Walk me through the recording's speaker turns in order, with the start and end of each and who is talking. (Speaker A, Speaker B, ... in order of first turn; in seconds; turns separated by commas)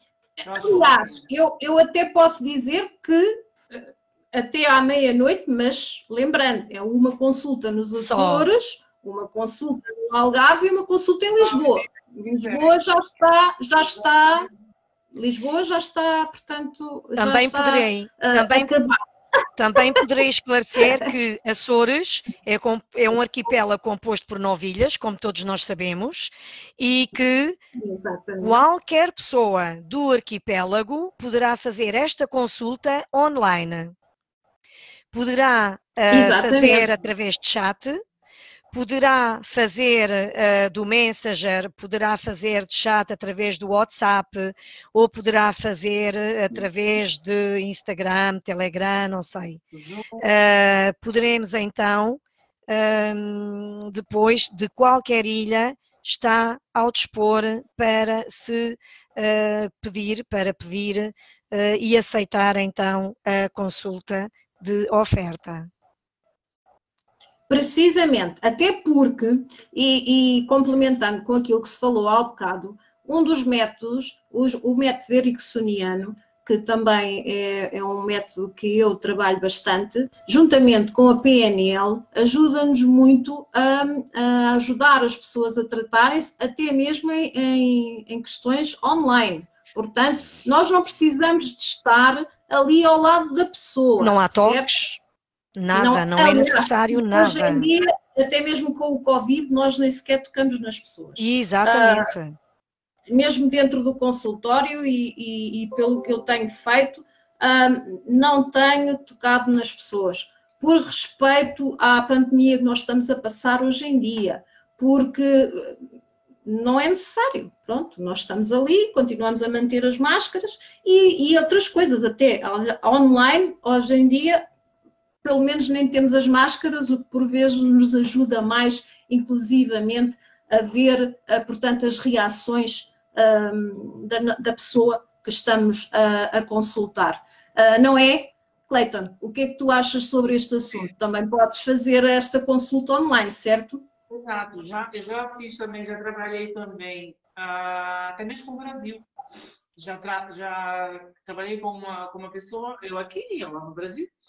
Speaker A: 0.4-14.5, Speaker B: 0.5-1.2, Speaker C: 7.9-8.5, Speaker B: 11.4-12.8, Speaker B: 13.9-14.5, Speaker A: 15.1-19.0, Speaker C: 17.2-18.7, Speaker C: 19.6-27.6, Speaker A: 27.8-28.6, Speaker C: 28.4-34.0, Speaker C: 35.1-38.0, Speaker A: 36.1-36.9, Speaker C: 38.7-49.6, Speaker B: 49.7-50.3, Speaker C: 50.2-65.7, Speaker A: 67.5-94.7, Speaker C: 94.0-95.0, Speaker C: 95.6-97.7, Speaker A: 95.7-102.1, Speaker C: 101.2-102.4, Speaker A: 103.1-115.8, Speaker A: 116.5-124.4, Speaker A: 125.2-143.8, Speaker B: 144.1-149.1, Speaker B: 149.8-154.1